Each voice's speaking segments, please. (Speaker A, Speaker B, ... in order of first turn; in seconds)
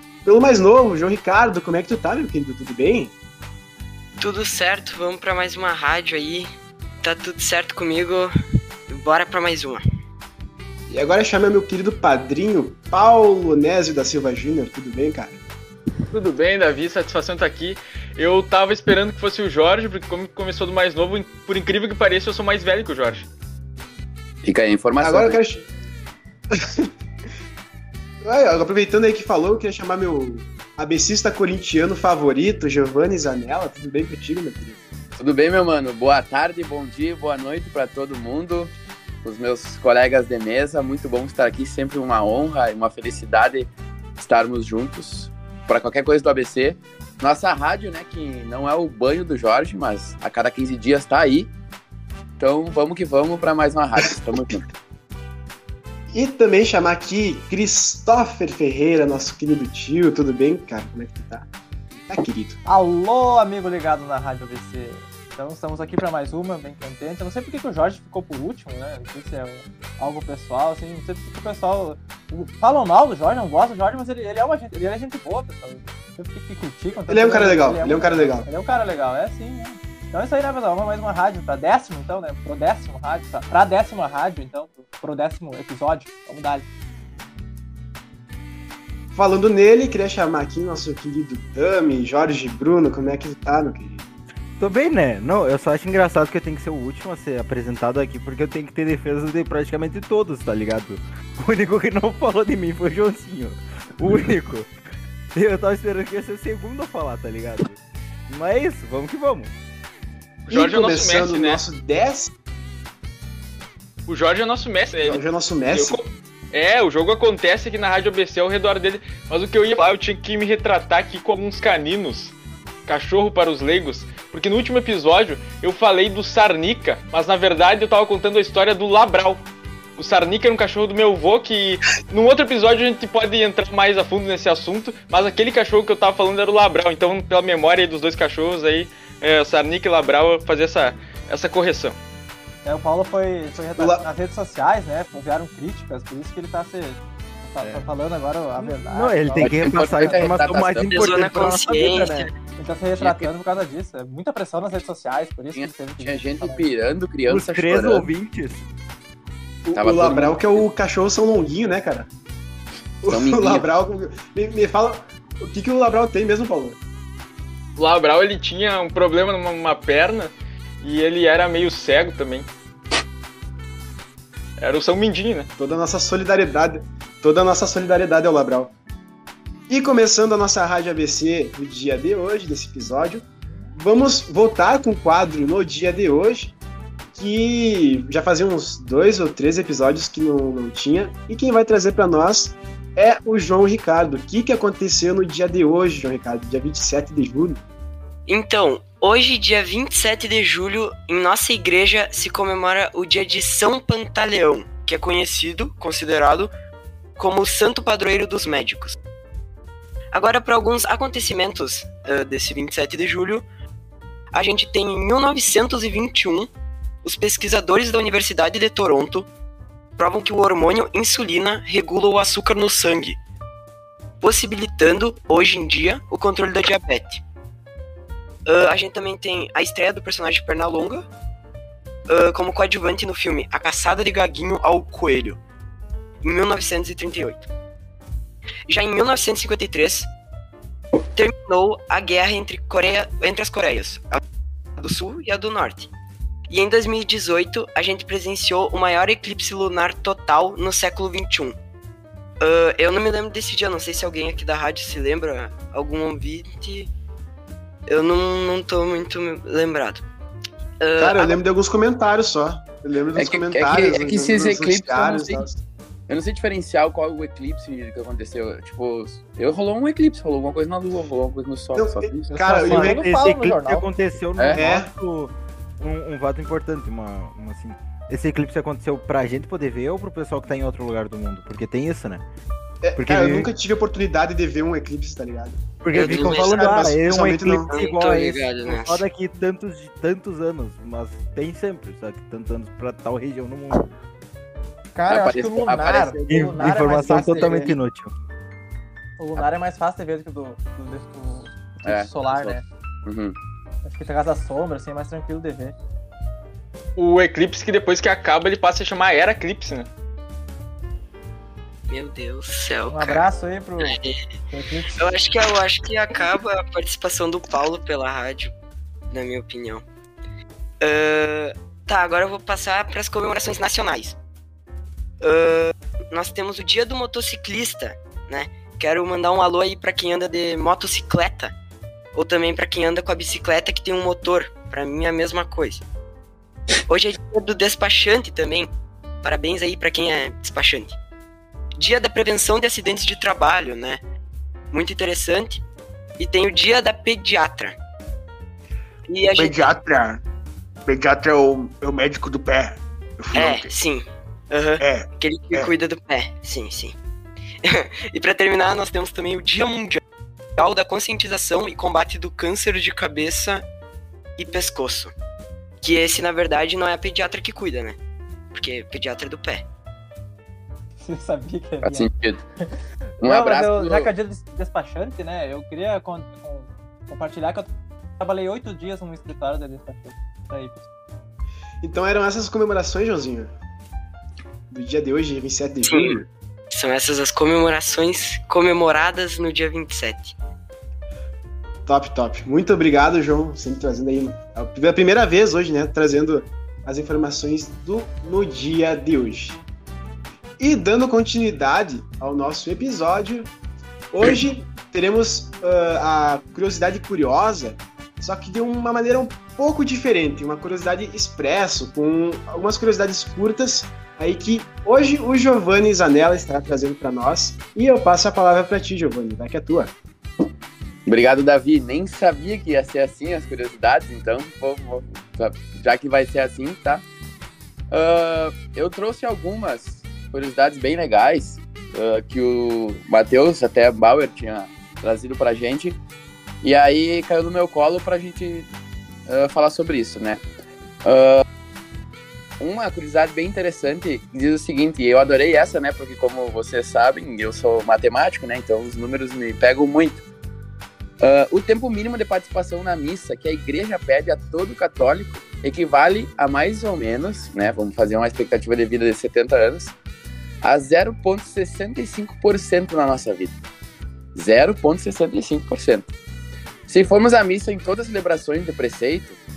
Speaker A: 0.2-3.1, 10.9-15.4, 25.0-25.7, 26.5-26.9, 28.2-34.8, 56.1-61.5, 62.1-62.6, 77.1-78.5, 89.1-94.1, 110.5-112.3, 115.0-116.0, 143.8-144.1, 159.7-162.1, 163.0-166.8, 175.6-178.7, 179.7-186.6, 187.1-197.6, 261.0-265.6, 271.8-273.0, 274.5-274.9, 282.8-287.7, 381.8-383.5, 384.7-386.3, 391.9-399.6, 400.6-403.5, 404.1-419.9
Speaker B: 4.2-8.3, 8.9-9.8, 150.9-152.3, 198.3-206.5, 207.2-209.0, 210.1-213.5, 214.3-216.5, 217.0-219.3, 220.0-223.2, 224.2-227.2, 228.5-231.1, 232.1-235.4, 236.2-237.5, 238.7-240.1, 241.1-244.2, 244.8-245.9, 246.5-251.6, 252.4-256.9, 257.9-260.1, 260.8-261.4, 285.9-286.9, 287.6-289.1, 311.9-313.2, 313.8-314.1, 315.0-318.5, 319.1-319.8, 320.8-324.2, 325.2-331.5, 332.1-335.8, 336.9-338.7, 339.2-341.0, 341.8-344.0, 344.7-345.6, 346.2-347.8, 349.1-349.6, 353.3-357.0, 357.6-360.0, 360.6-363.7, 364.4-365.1, 365.8-368.0, 368.5-369.6, 385.8-386.2, 386.7-390.4
Speaker C: 16.1-23.3, 110.5-111.6, 114.1-122.3, 122.9-129.4, 130.0-142.0, 167.8-172.5, 174.6-175.5, 307.0-309.9
Speaker D: 24.4-25.4, 35.2-51.5, 52.4-54.7, 149.4-151.6, 153.0-153.3, 155.5-158.1, 159.8-160.6, 163.1-163.7, 263.2-265.4, 266.1-272.3, 295.1-297.7, 301.9-303.4, 371.8-372.4, 373.2-374.1, 421.1-427.0, 427.9-436.0, 436.6-438.7, 439.3-440.4, 441.0-441.4, 442.6-450.2, 451.2-459.9, 460.6-463.5, 464.4-466.1, 466.9-469.4
Speaker E: 62.7-86.7, 142.7-150.3, 152.6-156.6, 272.4-273.9, 294.9-297.8, 299.2-302.7, 303.8-305.8, 312.9-315.1, 371.0-372.1, 372.6-377.7, 378.2-380.9
Speaker F: 94.6-104.7, 105.3-107.8, 108.3-109.5, 147.6-147.8, 148.6-152.3, 157.3-158.7, 272.6-282.2, 282.9-283.5, 285.8-293.9, 296.3-298.1
Speaker G: 349.3-350.2, 350.9-353.7, 354.8-355.7